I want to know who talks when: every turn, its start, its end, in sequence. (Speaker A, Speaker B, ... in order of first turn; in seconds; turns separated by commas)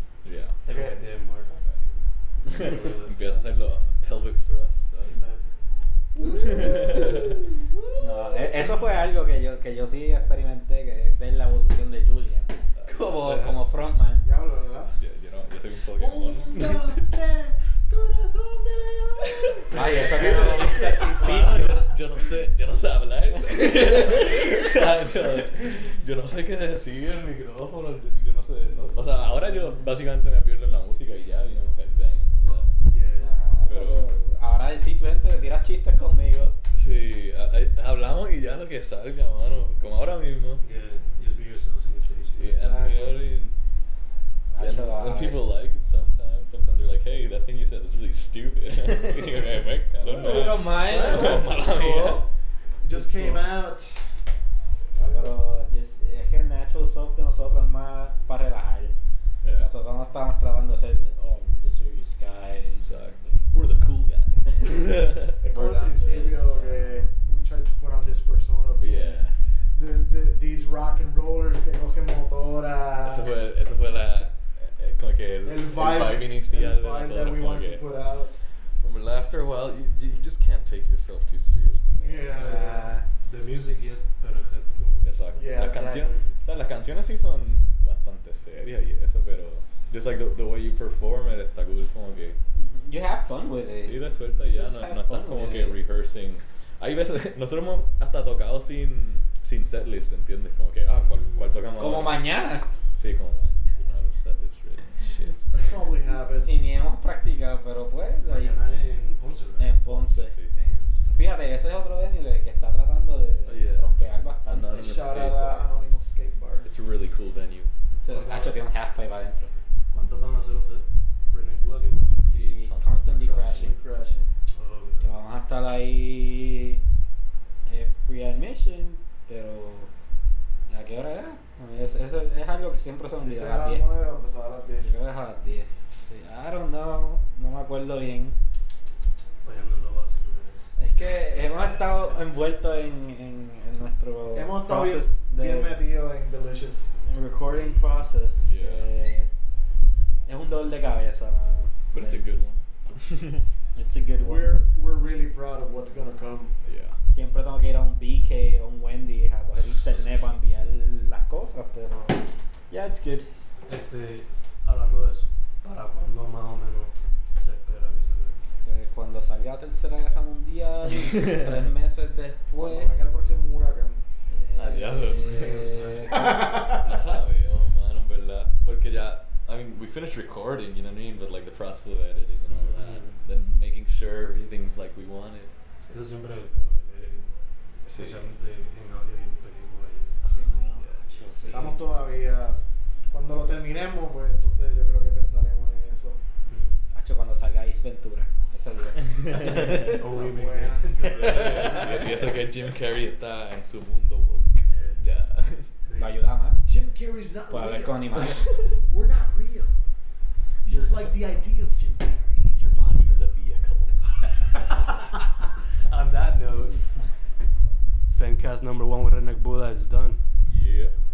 Speaker A: 0.2-0.6, Speaker B: 0.6-1.9, Speaker C: 0.7-1.0, Speaker B: 2.5-3.3, Speaker A: 2.5-5.2, Speaker B: 5.1-5.5, Speaker C: 6.2-8.9, Speaker A: 6.4-7.4, Speaker D: 8.0-14.2, Speaker A: 12.8-13.6, Speaker C: 14.2-14.9, Speaker A: 14.9-17.0, Speaker C: 15.9-19.6, Speaker A: 19.4-32.7, Speaker D: 19.7-21.7, Speaker C: 20.8-21.5, Speaker B: 21.0-21.6, Speaker B: 28.7-29.7, Speaker B: 32.9-33.4, Speaker D: 33.2-36.5, Speaker A: 33.6-34.1, Speaker A: 36.7-40.6, Speaker B: 40.6-42.5, Speaker A: 42.4-43.5, Speaker C: 42.5-43.2, Speaker D: 44.5-45.5, Speaker A: 44.6-52.2, Speaker D: 50.0-52.3, Speaker C: 50.3-51.6, Speaker C: 52.8-54.0, Speaker D: 52.9-53.4, Speaker C: 55.0-55.4, Speaker D: 55.0-58.9, Speaker A: 59.4-59.7, Speaker D: 59.6-63.4, Speaker A: 62.8-66.6, Speaker C: 65.4-73.3, Speaker A: 68.8-69.3, Speaker A: 73.0-77.8, Speaker C: 75.4-78.3, Speaker A: 78.8-82.5, Speaker C: 82.0-83.0, Speaker D: 82.3-83.0, Speaker B: 82.4-85.1, Speaker A: 85.0-92.4, Speaker C: 85.3-86.2, Speaker D: 92.5-95.8, Speaker A: 93.8-102.3, Speaker B: 100.9-101.6, Speaker D: 101.8-102.7, Speaker A: 103.0-105.7, Speaker C: 105.5-106.5, Speaker D: 106.4-108.6, Speaker B: 108.2-109.7, Speaker D: 109.6-110.3, Speaker A: 109.8-110.5, Speaker B: 110.5-111.3, Speaker D: 111.1-115.0, Speaker A: 113.5-115.7, Speaker C: 114.8-116.7, Speaker A: 116.6-117.7, Speaker D: 118.0-119.5, Speaker B: 118.1-118.6, Speaker B: 119.9-122.2, Speaker A: 122.3-123.6, Speaker D: 122.3-123.8, Speaker C: 123.2-124.3, Speaker B: 124.5-125.1, Speaker D: 125.0-126.8, Speaker D: 127.7-129.9, Speaker D: 130.7-133.8, Speaker C: 133.2-134.9, Speaker D: 134.8-138.4, Speaker B: 139.4-140.8, Speaker D: 140.8-145.8, Speaker C: 144.3-147.0, Speaker D: 147.0-149.3, Speaker B: 147.5-148.0, Speaker A: 148.4-148.9, Speaker D: 150.3-152.2, Speaker A: 151.9-153.4, Speaker D: 153.7-154.6, Speaker C: 154.2-156.5, Speaker A: 156.6-157.0, Speaker D: 157.1-163.3, Speaker A: 159.6-160.4, Speaker B: 163.7-168.4, Speaker D: 168.6-173.0, Speaker A: 171.0-171.5, Speaker C: 172.6-174.0, Speaker D: 174.3-176.7, Speaker A: 174.6-175.7, Speaker B: 175.2-176.4, Speaker C: 176.1-176.8, Speaker A: 176.6-185.5, Speaker B: 182.5-183.2, Speaker B: 185.9-187.3, Speaker A: 187.8-188.3, Speaker B: 187.9-190.2, Speaker A: 190.2-191.0, Speaker C: 190.2-196.2, Speaker D: 191.0-191.8, Speaker B: 191.5-191.8, Speaker B: 196.4-196.8, Speaker D: 196.9-199.9, Speaker A: 199.2-199.9, Speaker B: 199.3-202.4, Speaker C: 199.8-202.1, Speaker A: 201.1-205.7, Speaker B: 204.6-205.0, Speaker B: 205.8-206.2, Speaker D: 205.9-206.6, Speaker C: 206.6-209.7, Speaker D: 207.5-208.4, Speaker A: 208.3-208.6, Speaker C: 210.6-212.6, Speaker A: 212.5-214.6, Speaker B: 215.8-216.9, Speaker B: 218.1-220.2, Speaker A: 220.4-220.9